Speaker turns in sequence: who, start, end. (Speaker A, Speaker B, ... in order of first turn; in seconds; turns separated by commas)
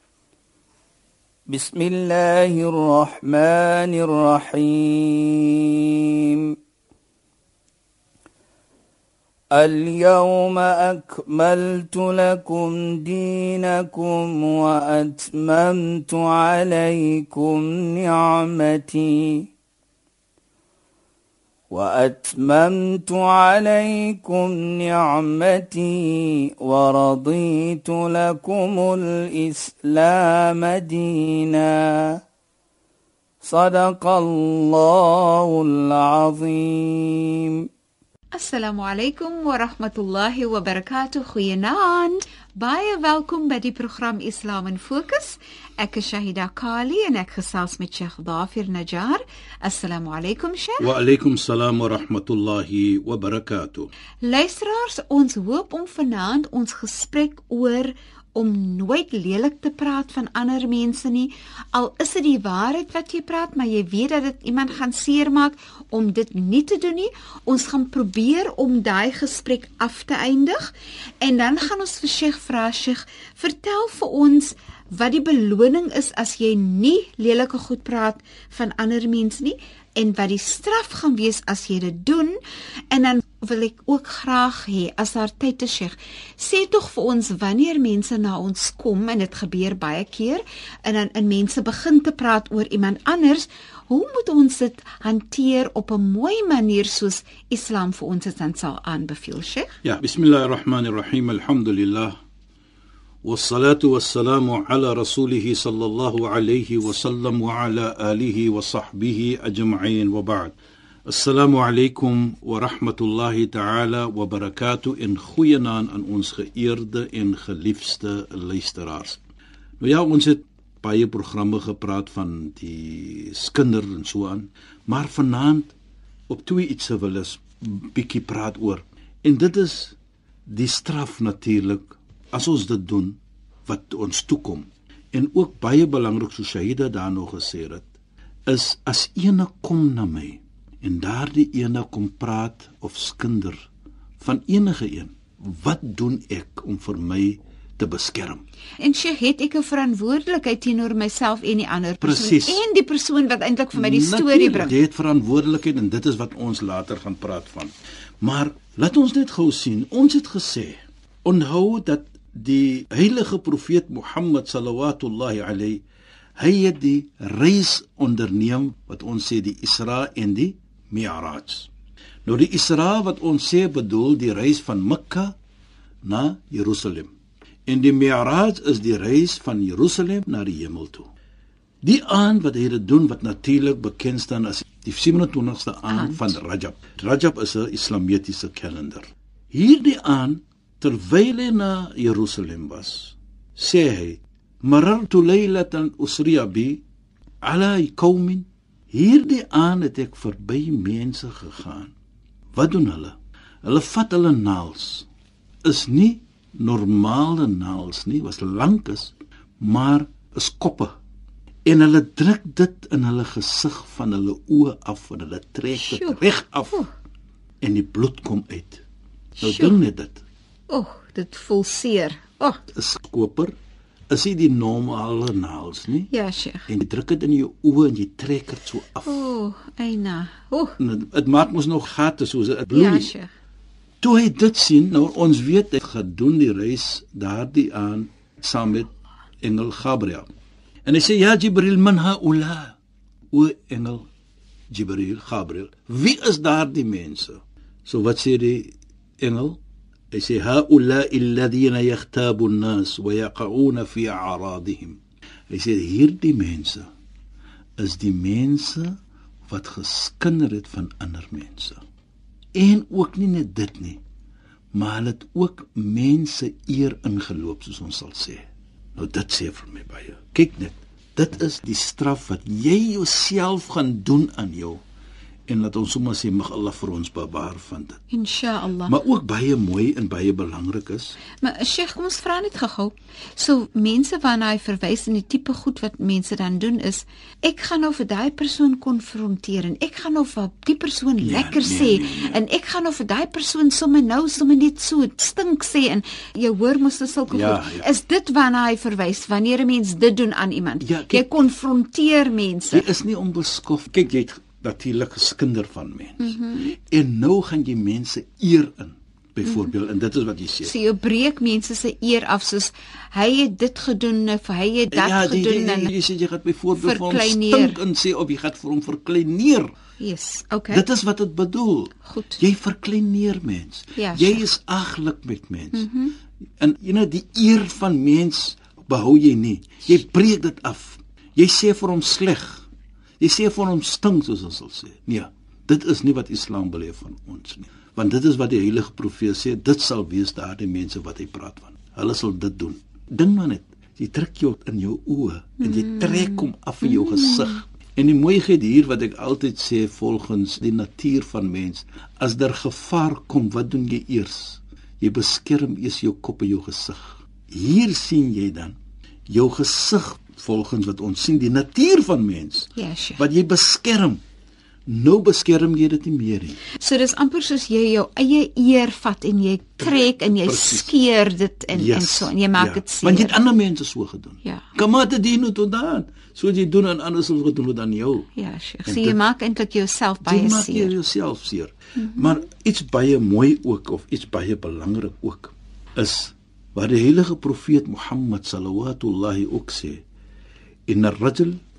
Speaker A: 1.5-6.5, Speaker A: 9.5-19.5, Speaker A: 21.7-32.2, Speaker A: 33.4-37.7, Speaker B: 38.3-50.9, Speaker C: 50.8-53.9, Speaker B: 54.2-82.4, Speaker B: 82.9-99.8, Speaker C: 99.8-102.2, Speaker C: 103.2-110.5, Speaker C: 111.1-119.2, Speaker C: 119.8-125.8, Speaker C: 126.3-137.9, Speaker C: 138.5-143.7, Speaker C: 144.2-148.4, Speaker B: 148.8-154.8, Speaker C: 152.0-152.6, Speaker C: 153.7-165.8, Speaker C: 166.4-171.7, Speaker C: 172.2-175.3, Speaker C: 176.0-177.1, Speaker C: 177.7-181.1, Speaker C: 181.8-196.8, Speaker B: 185.9-186.4, Speaker C: 197.4-201.9, Speaker C: 202.5-205.1, Speaker C: 205.6-210.9, Speaker C: 211.7-216.9, Speaker B: 215.8-216.9, Speaker C: 217.6-218.8, Speaker B: 219.4-219.8, Speaker C: 219.4-220.2, Speaker B: 220.7-222.6, Speaker C: 222.7-223.5, Speaker C: 224.1-226.1, Speaker B: 226.1-226.7, Speaker C: 226.7-229.3, Speaker B: 229.1-230.8, Speaker C: 230.8-233.1, Speaker B: 232.7-233.3, Speaker C: 234.0-238.9, Speaker C: 239.4-240.3, Speaker C: 240.8-242.8, Speaker C: 243.3-244.1, Speaker C: 244.7-249.6, Speaker C: 250.1-256.9, Speaker C: 257.8-259.0, Speaker C: 259.5-261.8, Speaker C: 262.6-264.0, Speaker C: 264.7-268.4, Speaker C: 269.0-274.8, Speaker C: 275.5-278.0, Speaker B: 278.1-278.9, Speaker C: 278.9-281.2, Speaker B: 281.4-302.9, Speaker C: 291.2-292.4, Speaker C: 297.3-297.9, Speaker C: 300.8-301.4, Speaker C: 302.7-310.7, Speaker B: 306.2-306.7, Speaker B: 310.6-315.9, Speaker C: 314.9-319.7, Speaker B: 316.8-317.8, Speaker B: 320.0-320.9, Speaker C: 320.7-325.9, Speaker B: 322.0-322.4, Speaker B: 324.0-324.5, Speaker B: 325.7-326.2, Speaker C: 326.6-332.7, Speaker C: 333.2-358.8, Speaker B: 345.6-347.6, Speaker C: 359.3-364.2, Speaker B: 362.8-363.2, Speaker C: 364.9-366.6, Speaker B: 366.7-373.4, Speaker C: 369.8-370.9, Speaker C: 371.7-378.3, Speaker B: 374.4-374.7, Speaker B: 378.4-381.0, Speaker C: 378.9-379.2, Speaker C: 380.2-390.0, Speaker B: 382.0-382.3, Speaker C: 390.9-391.6